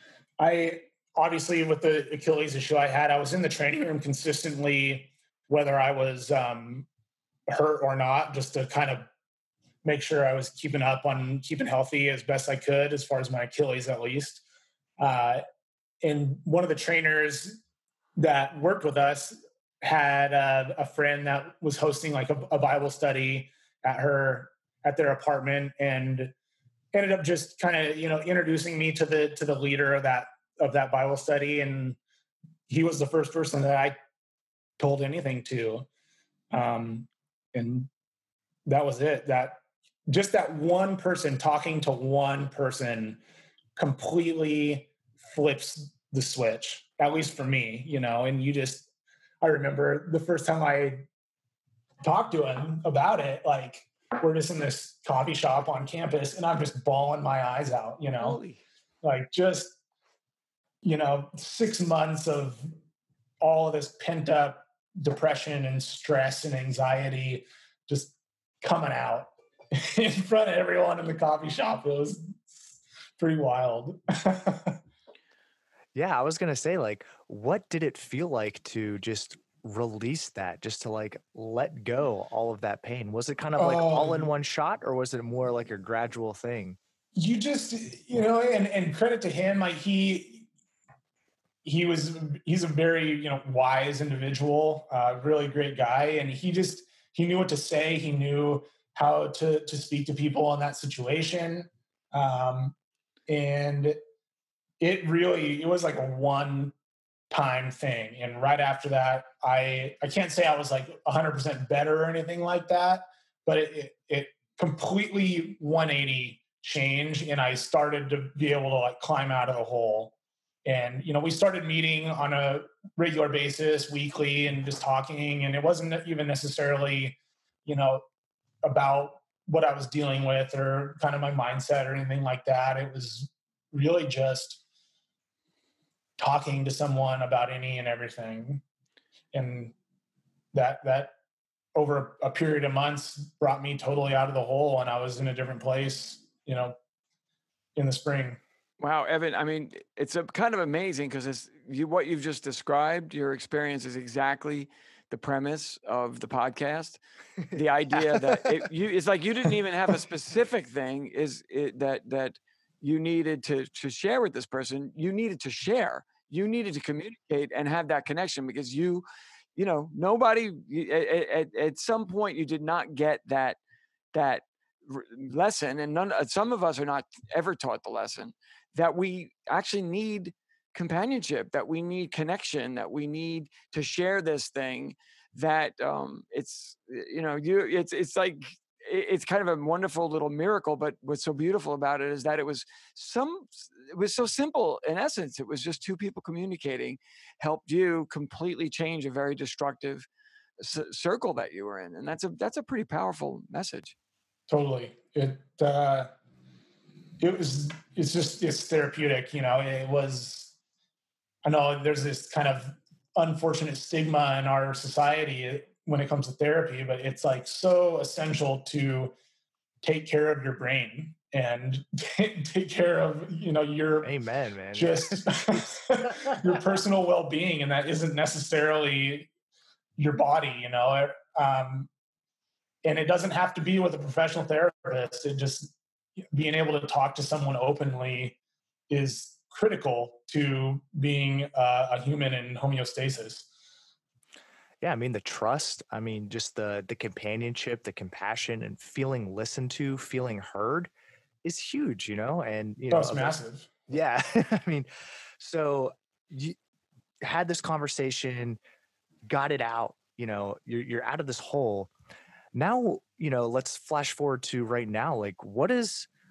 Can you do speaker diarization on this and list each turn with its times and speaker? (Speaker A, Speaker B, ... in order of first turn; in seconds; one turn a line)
Speaker A: 0.4-6.9
Speaker A: 7.5-9.1
Speaker A: 9.8-14.4
Speaker A: 15.0-15.4
Speaker A: 16.0-17.6
Speaker A: 18.2-26.3
Speaker A: 26.9-32.0
Speaker A: 32.7-34.0
Speaker A: 34.8-35.9
Speaker A: 36.5-37.9
Speaker A: 38.6-39.6
Speaker A: 40.1-43.2
Speaker A: 43.8-48.9
Speaker A: 49.4-51.0
Speaker A: 52.0-58.4
Speaker B: 58.2-58.6
Speaker A: 59.0-59.8
Speaker A: 60.8-62.7
Speaker A: 63.4-74.8
Speaker C: 75.9-86.8
Speaker A: 83.6-84.3
Speaker A: 87.2-90.5
Speaker A: 91.6-102.7
Speaker A: 103.3-104.0
Speaker A: 104.8-106.7
Speaker A: 107.3-120.1
Speaker A: 120.6-128.0
Speaker A: 128.6-134.6
Speaker A: 136.2-138.6
Speaker A: 139.3-139.7
Speaker A: 140.5-141.1
Speaker A: 141.7-146.7
Speaker A: 147.8-148.4
Speaker B: 148.8-157.0
Speaker B: 157.5-169.0
Speaker B: 169.6-173.6
Speaker B: 174.1-200.1
Speaker B: 200.6-203.9
Speaker A: 204.5-206.1
Speaker A: 207.2-210.5
Speaker A: 211.4-219.1
Speaker A: 219.8-224.1
Speaker C: 224.0-226.6
Speaker A: 224.7-229.3
Speaker A: 230.0-231.9
Speaker A: 232.8-235.7
Speaker A: 236.3-238.4
Speaker A: 238.9-243.5
Speaker C: 244.8-250.9
Speaker C: 251.4-253.4
Speaker A: 252.9-253.7
Speaker C: 253.9-254.9
Speaker C: 255.4-256.6
Speaker C: 257.2-258.6
Speaker C: 259.2-261.9
Speaker C: 262.5-266.1